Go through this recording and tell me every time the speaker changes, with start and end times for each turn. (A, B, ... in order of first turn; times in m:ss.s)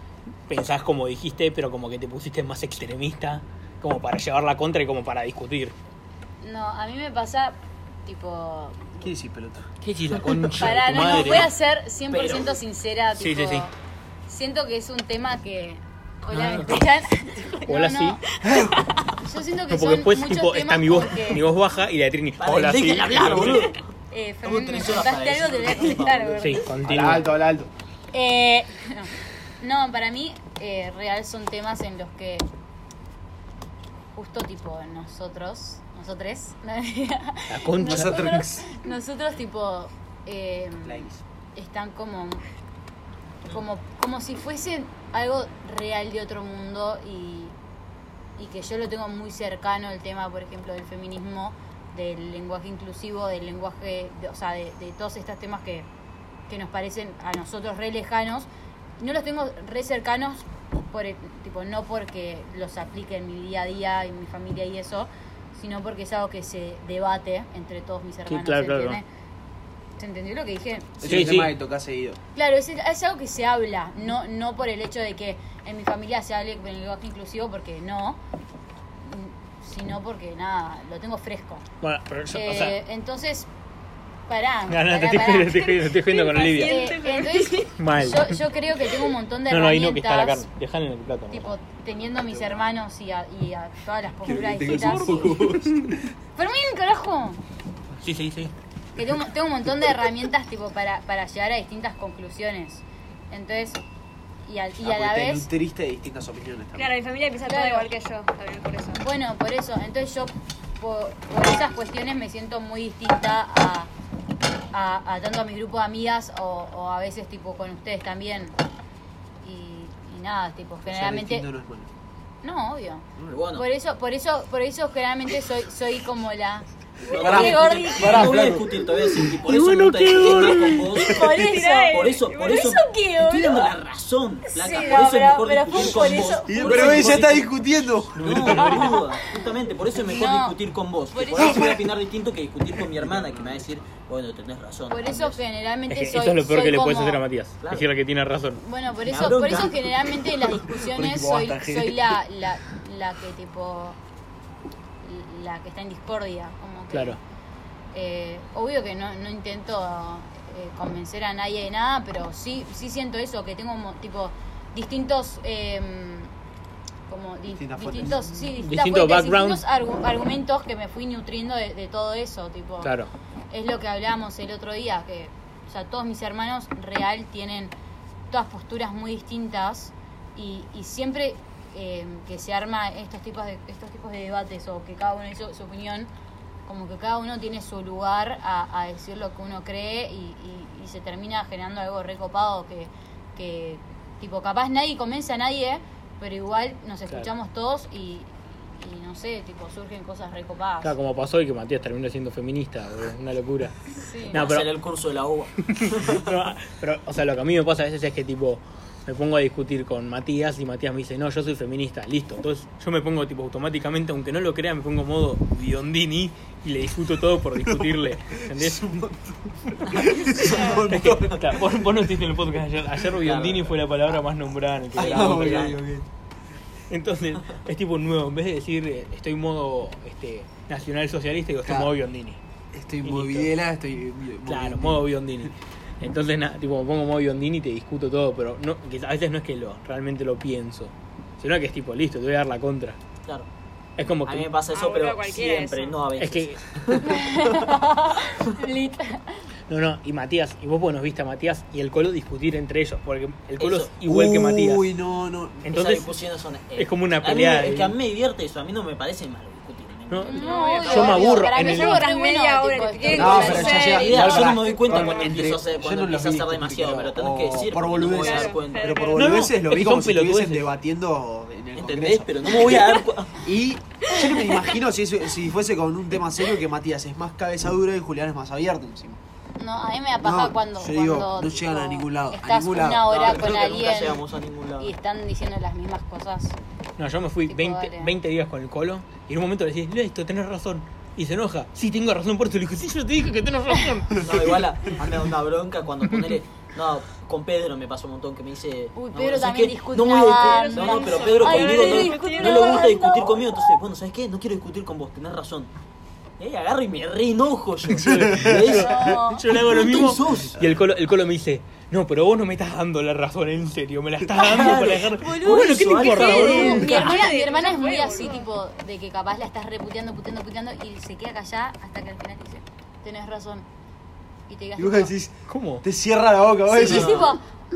0:00.5-0:05.7 A
0:06.4-0:09.1 B
0:09.0-0:09.7 C
0:09.8-0:11.5 A
0:10.2-0:10.5 C
0:10.5-0:13.7 B
0:12.1-0:12.6 D
0:13.2-0:13.7 A
0:14.3-0:18.2 B
0:16.3-0:16.8 A
0:17.7-0:18.2 A
0:18.4-0:18.9 C
0:18.5-0:18.7 E
0:19.2-0:21.4 B
0:19.7-0:23.7 A
0:22.4-0:23.8 D
0:24.1-0:26.7 B
0:24.4-0:26.6 D
0:26.4-0:27.3 A
0:26.8-0:27.7 C
0:28.1-0:32.5 B
0:34.2-0:42.4 B
0:37.5-0:38.4 A
0:37.8-0:38.7 C
0:40.9-0:41.2 C
0:43.5-0:47.6 B
0:48.4-0:55.9 B
0:56.5-0:58.5 B
0:59.0-1:09.0 B
1:08.3-1:09.0 A
1:10.0-1:11.3 B
1:11.0-1:12.2 C
1:11.0-1:11.5 A
1:12.4-1:18.2 B
1:19.0-1:21.7 B
1:21.8-1:22.8 A
1:22.3-1:23.5 B
1:24.3-1:30.5 B
1:24.7-1:26.9 A
1:26.1-1:27.8 E
1:27.8-1:28.4 A
1:29.5-1:31.6 A
1:31.3-1:35.5 B
1:31.9-1:32.8 C
1:34.2-1:36.0 C
1:34.6-1:36.0 A
1:36.4-1:37.4 B
1:38.0-1:38.5 A
1:39.0-1:43.8 B
1:44.4-1:45.5 B
1:44.8-1:46.9 C
1:46.8-1:49.0 E
1:47.4-1:47.9 B
1:48.9-1:53.9 B
1:54.7-1:58.6 B
1:59.4-2:01.5 B
2:00.9-2:01.9 C
2:02.4-2:08.5 B
2:03.3-2:03.7 D
2:07.1-2:17.5 D
2:07.2-2:08.9 C
2:09.3-2:11.2 A
2:11.0-2:13.8 B
2:11.3-2:12.7 E
2:14.4-2:17.2 B
2:16.5-2:18.9 C
2:18.2-2:25.4 D
2:18.2-2:19.0 A
2:18.9-2:20.6 B
2:21.1-2:21.8 B
2:21.4-2:21.9 C
2:22.8-2:23.8 C
2:24.9-2:27.2 B
2:25.9-2:28.6 A
2:27.6-2:27.9 D
2:28.6-2:34.0 B
2:29.0-2:30.1 D
2:30.7-2:32.2 C
2:35.0-2:37.2 B
2:36.9-2:37.2 A
2:37.9-2:46.3 B
2:47.1-2:52.9 B
2:47.5-2:48.3 C
2:48.5-2:49.6 A
2:52.8-2:53.1 A
2:53.5-2:57.7 B
2:58.3-3:06.1 B
3:06.7-3:21.0 B
3:20.8-3:23.8 A
3:24.0-3:24.5 B
3:24.3-3:24.7 A
3:24.3-3:26.3 D
3:25.7-3:39.1 A
3:37.6-3:42.1 C
3:39.7-3:40.1 A
3:39.9-3:41.4 D
3:40.4-3:40.9 E
3:40.8-3:45.8 A
3:43.2-3:43.7 D
3:45.0-3:45.8 D
3:45.0-3:46.1 C
3:46.9-3:52.4 A
3:51.6-3:51.9 C
3:52.7-3:55.1 C
3:53.0-3:53.5 A
3:54.5-4:03.0 A
4:04.0-4:04.5 A
4:04.2-4:07.7 D
4:04.7-4:06.0 E
4:06.2-4:07.0 A
4:07.0-4:09.4 B
4:09.7-4:14.9 A
4:13.6-4:13.9 D
4:14.1-4:15.7 C
4:15.6-4:16.0 A
4:15.7-4:21.0 D
4:16.8-4:17.9 A
4:20.1-4:22.0 A
4:20.2-4:24.1 B
4:20.3-4:25.3 E
4:23.1-4:39.2 C
4:23.2-4:29.2 D
4:28.2-4:29.4 E
4:29.2-4:30.7 A
4:31.8-4:33.4 D
4:34.1-4:34.6 E
4:39.6-4:44.2 B
4:40.2-4:43.2 C
4:43.0-4:44.9 D
4:44.8-4:46.6 B
4:47.0-4:54.5 A
4:47.5-4:48.2 B
4:54.2-5:05.7 D
4:59.0-5:03.4 B
5:00.4-5:03.0 E
5:06.4-5:10.6 D
5:08.0-5:17.1 A
5:08.0-5:08.6 C
5:08.6-5:09.5 B
5:14.3-5:17.2 D
5:15.4-5:18.5 E
5:16.2-5:23.7 B
5:24.5-5:25.1 B
5:24.8-5:27.3 C
5:25.5-5:25.8 A
5:26.7-5:27.4 B
5:26.8-5:27.4 D